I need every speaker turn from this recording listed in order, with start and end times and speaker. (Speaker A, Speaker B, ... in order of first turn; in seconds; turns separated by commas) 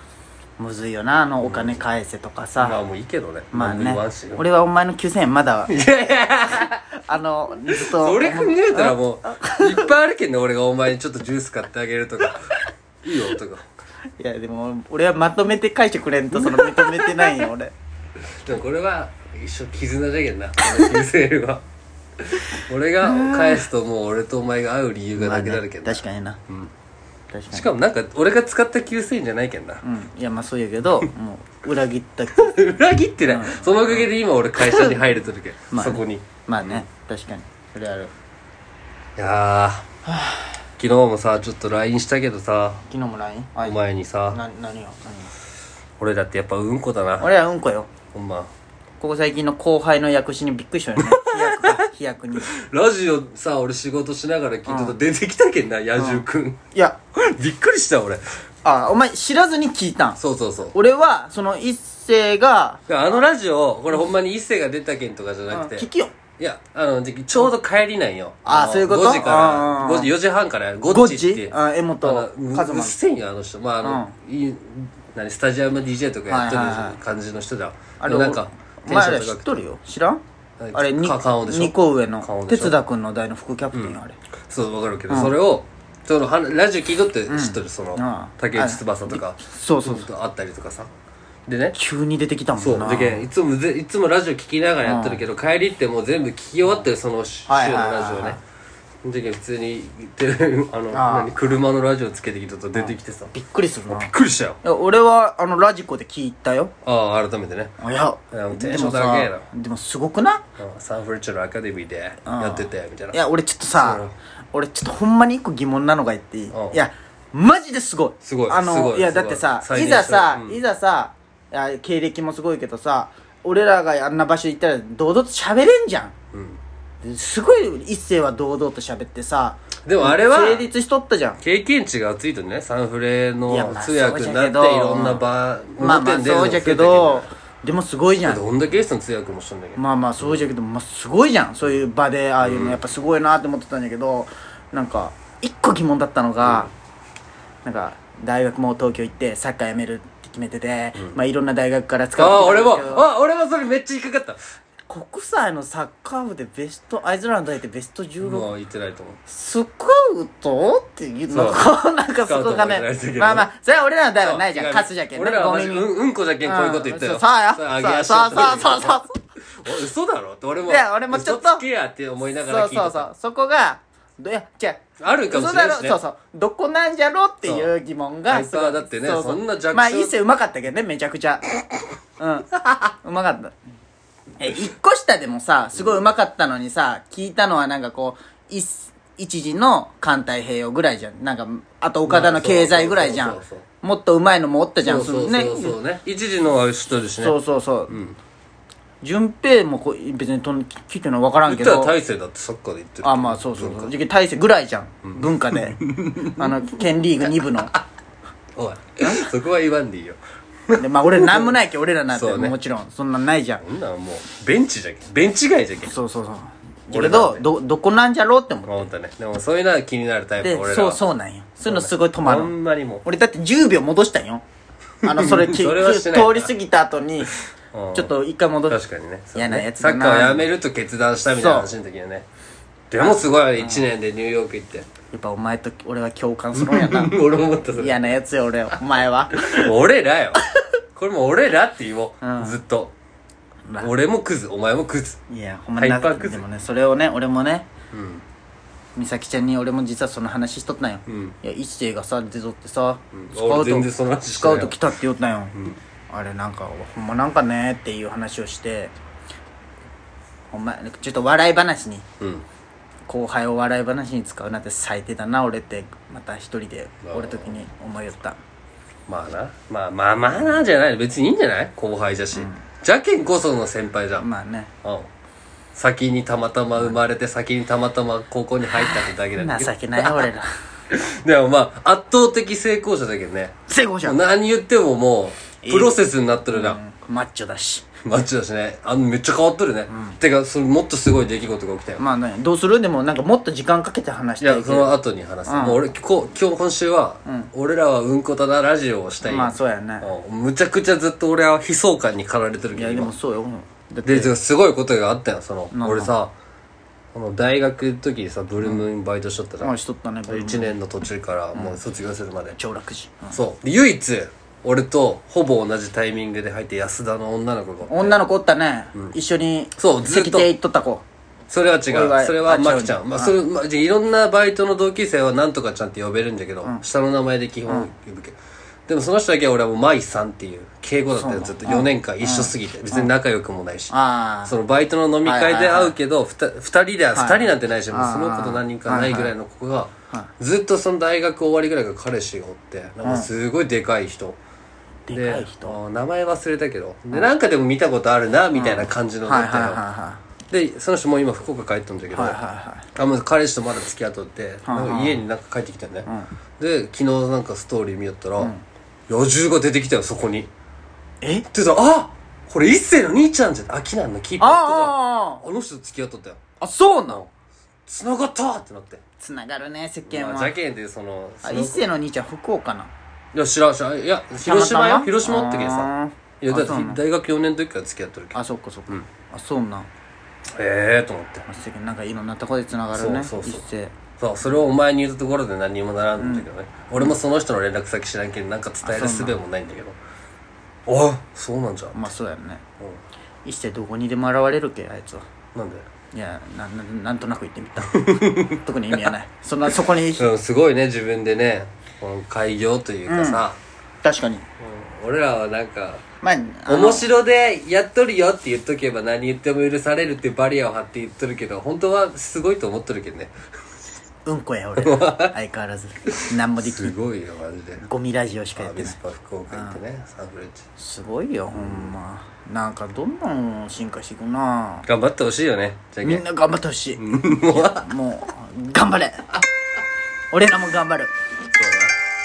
Speaker A: 0.6-2.8, Speaker B: 1.4-1.8, Speaker B: 2.6-4.4, Speaker A: 3.5-5.7, Speaker B: 5.7-6.8, Speaker A: 6.5-9.9, Speaker B: 7.7-13.6, Speaker A: 14.2-17.8, Speaker B: 16.3-17.5, Speaker B: 18.2-21.6, Speaker B: 22.2-26.7, Speaker A: 23.0-23.6, Speaker A: 25.2-26.4, Speaker A: 27.3-27.7, Speaker B: 27.5-29.8, Speaker A: 29.8-32.7, Speaker B: 32.4-36.9, Speaker A: 33.2-34.1, Speaker A: 34.6-35.0, Speaker A: 35.7-38.1, Speaker B: 39.2-39.9, Speaker A: 40.1-40.6, Speaker B: 40.8-42.8, Speaker A: 42.9-43.8, Speaker B: 43.6-44.4, Speaker A: 44.3-45.3, Speaker B: 46.0-47.3, Speaker A: 47.2-47.9, Speaker B: 48.1-48.5, Speaker A: 49.0-52.5, Speaker B: 51.0-51.8, Speaker B: 52.4-56.6, Speaker A: 54.7-55.0, Speaker A: 56.0-57.0, Speaker B: 57.1-58.2, Speaker A: 58.6-60.2, Speaker B: 60.2-60.8, Speaker A: 60.7-62.8, Speaker B: 62.9-65.9, Speaker A: 65.5-66.2, Speaker B: 66.4-79.6, Speaker A: 68.5-70.1, Speaker A: 70.9-73.0, Speaker A: 73.8-74.1, Speaker A: 76.3-77.0, Speaker A: 78.0-80.2, Speaker B: 80.6-82.8, Speaker A: 80.7-84.2, Speaker B: 83.7-90.9, Speaker A: 85.1-85.4, Speaker A: 87.3-90.1, Speaker B: 91.5-91.8, Speaker A: 91.8-93.3, Speaker B: 92.6-98.4, Speaker A: 94.8-95.2, Speaker A: 97.5-98.4, Speaker B: 99.0-103.3, Speaker A: 100.9-101.3, Speaker A: 102.8-104.1, Speaker B: 103.9-104.6, Speaker A: 104.6-106.7, Speaker B: 106.8-107.8, Speaker A: 107.8-110.4, Speaker B: 108.3-109.5, Speaker B: 110.6-113.2, Speaker A: 112.2-114.0, Speaker B: 113.8-114.2, Speaker A: 114.5-126.2, Speaker B: 116.5-116.8, Speaker B: 118.2-120.6, Speaker B: 126.3-126.6, Speaker A: 127.0-131.4, Speaker B: 129.9-130.7, Speaker B: 131.4-137.3, Speaker A: 133.5-135.2, Speaker A: 135.8-138.4, Speaker B: 138.2-140.5, Speaker A: 139.8-146.7, Speaker B: 142.4-142.8, Speaker B: 146.4-146.7, Speaker A: 147.7-153.1, Speaker B: 152.2-154.4, Speaker A: 154.9-158.5, Speaker B: 158.2-159.2, Speaker A: 159.3-165.9, Speaker B: 161.3-161.7, Speaker B: 162.2-163.5, Speaker B: 164.2-173.1, Speaker A: 166.4-169.2, Speaker A: 170.7-171.6, Speaker A: 172.4-183.5, Speaker B: 175.0-176.0, Speaker B: 177.4-177.7, Speaker B: 178.3-180.2, Speaker A: 184.4-195.8, Speaker B: 192.1-193.6, Speaker B: 194.8-198.2, Speaker A: 197.2-198.0, Speaker A: 199.0-201.9, Speaker B: 201.5-203.9, Speaker A: 203.0-207.8, Speaker B: 205.1-206.6, Speaker B: 207.2-207.8, Speaker B: 208.6-212.6, Speaker A: 210.8-213.6, Speaker B: 213.6-215.9, Speaker A: 215.8-218.9, Speaker B: 216.9-217.5, Speaker B: 218.7-221.0, Speaker A: 220.4-224.4, Speaker B: 221.7-223.0, Speaker A: 225.0-227.3, Speaker B: 225.1-226.5, Speaker B: 227.7-228.1, Speaker A: 227.9-228.8, Speaker B: 228.7-232.3, Speaker A: 229.3-230.5, Speaker A: 231.4-231.7, Speaker B: 232.9-234.9, Speaker A: 233.0-233.8, Speaker A: 235.1-239.7, Speaker B: 236.6-238.1, Speaker B: 239.4-240.4, Speaker B: 240.9-242.9, Speaker A: 242.2-242.6, Speaker B: 243.8-245.2, Speaker A: 245.3-247.7, Speaker B: 245.8-246.4, Speaker B: 247.9-248.2, Speaker A: 249.0-258.9, Speaker B: 251.1-251.4, Speaker B: 253.1-254.8, Speaker A: 260.5-262.1, Speaker B: 262.2-262.5, Speaker A: 263.1-268.4, Speaker B: 267.1-267.6, Speaker B: 269.1-274.3, Speaker A: 272.3-272.6, Speaker A: 274.2-274.7, Speaker B: 274.8-275.1, Speaker B: 275.7-280.3, Speaker A: 278.7-280.5, Speaker B: 280.9-286.8, Speaker A: 283.7-284.2, Speaker A: 285.6-287.9, Speaker B: 288.1-292.0, Speaker A: 289.9-290.2, Speaker A: 292.0-295.8, Speaker B: 294.4-303.1, Speaker A: 297.3-297.5, Speaker A: 299.3-300.1, Speaker A: 302.7-304.3, Speaker B: 304.1-306.3, Speaker A: 305.7-306.1, Speaker B: 307.1-309.7, Speaker A: 309.6-310.7, Speaker B: 310.3-312.6, Speaker A: 312.6-313.4, Speaker B: 313.3-318.2, Speaker A: 317.9-321.0, Speaker B: 319.8-320.5, Speaker B: 321.5-333.9, Speaker A: 321.9-323.4, Speaker A: 331.2-333.1, Speaker A: 333.9-334.6, Speaker B: 334.5-344.4, Speaker A: 335.2-335.9, Speaker A: 337.1-339.3, Speaker A: 343.0-343.3, Speaker A: 345.1-345.8, Speaker B: 345.1-349.8, Speaker A: 348.6-350.2, Speaker B: 350.5-352.4, Speaker A: 352.1-352.9, Speaker B: 352.9-356.1, Speaker A: 354.6-355.2, Speaker B: 356.6-358.5, Speaker A: 358.4-358.6, Speaker B: 359.1-360.5, Speaker B: 361.5-366.4, Speaker A: 364.4-365.4, Speaker A: 366.6-367.2, Speaker B: 367.9-369.0, Speaker A: 369.2-370.6, Speaker B: 370.1-371.9, Speaker A: 371.4-372.9, Speaker B: 373.3-375.9, Speaker A: 374.4-377.0, Speaker B: 376.4-378.4, Speaker A: 378.3-379.9, Speaker B: 380.6-381.5, Speaker A: 381.5-383.9, Speaker B: 382.9-383.6, Speaker B: 384.2-390.0, Speaker A: 386.2-386.5, Speaker A: 388.8-389.4, Speaker B: 390.9-392.1, Speaker A: 391.9-392.6, Speaker A: 393.4-395.3, Speaker B: 395.6-395.9, Speaker A: 396.1-400.3, Speaker B: 397.8-399.1, Speaker B: 400.2-403.6, Speaker A: 403.1-403.5, Speaker A: 404.0-404.5, Speaker B: 404.6-406.0, Speaker A: 406.2-407.1, Speaker B: 406.7-413.3, Speaker A: 414.3-416.9, Speaker B: 414.8-415.3, Speaker B: 416.1-417.9, Speaker A: 417.8-419.0, Speaker B: 418.6-420.7, Speaker A: 419.5-419.8, Speaker A: 420.8-424.9, Speaker B: 424.9-426.2, Speaker A: 426.0-429.4, Speaker B: 427.0-427.9, Speaker A: 430.3-431.1, Speaker B: 431.5-432.0